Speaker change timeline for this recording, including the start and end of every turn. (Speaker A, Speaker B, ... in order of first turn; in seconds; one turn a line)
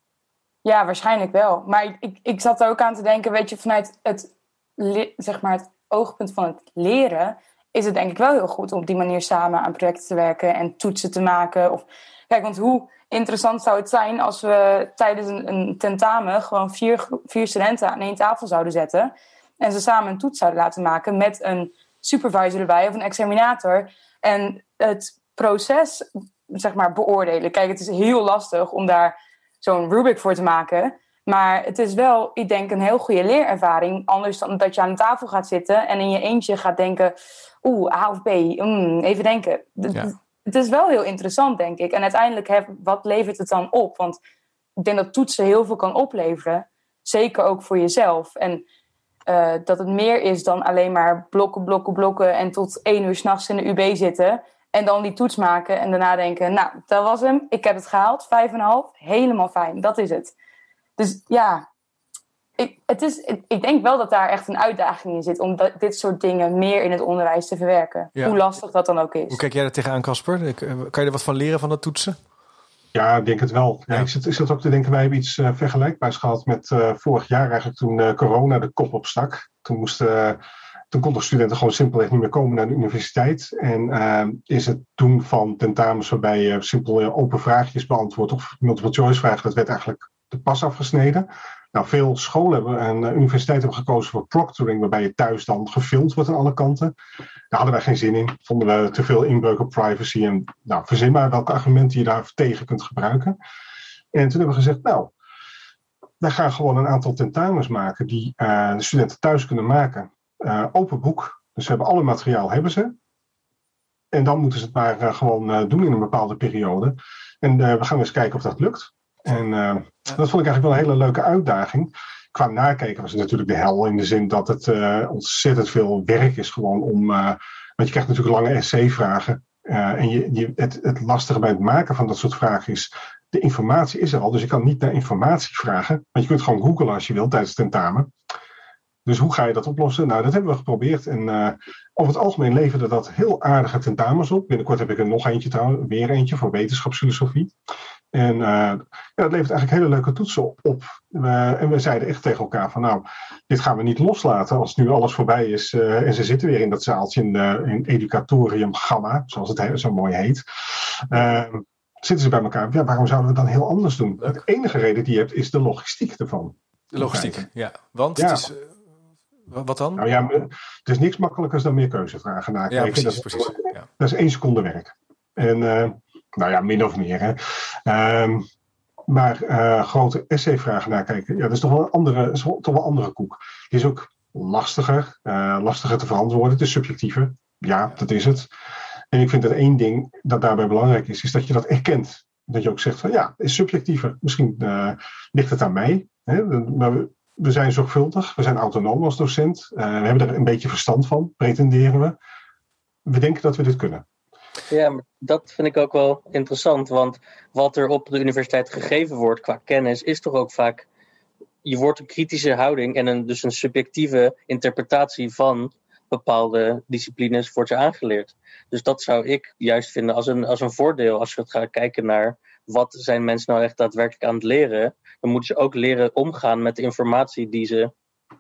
Speaker A: 0.6-44.2
Speaker A: 44.8-48.6
Speaker A: 49.3-60.3
Speaker A: 61.0-61.6
Speaker A: 62.6-69.4
Speaker B: 69.3-72.2
Speaker C: 72.9-80.4
Speaker C: 80.9-96.9
Speaker C: 97.5-103.4
Speaker C: 104.1-105.1
Speaker C: 106.2-112.9
Speaker C: 114.1-138.1
Speaker C: 139.1-147.5
Speaker C: 148.1-160.4
Speaker C: 161.1-167.5
Speaker B: 166.9-168.7
Speaker C: 168.2-168.5
Speaker B: 169.5-170.1
Speaker C: 169.9-178.4
Speaker B: 172.7-173.8
Speaker C: 179.1-188.5
Speaker C: 189.1-202.2
Speaker C: 203.1-204.1
Speaker D: 204.7-210.9
Speaker D: 211.6-227.9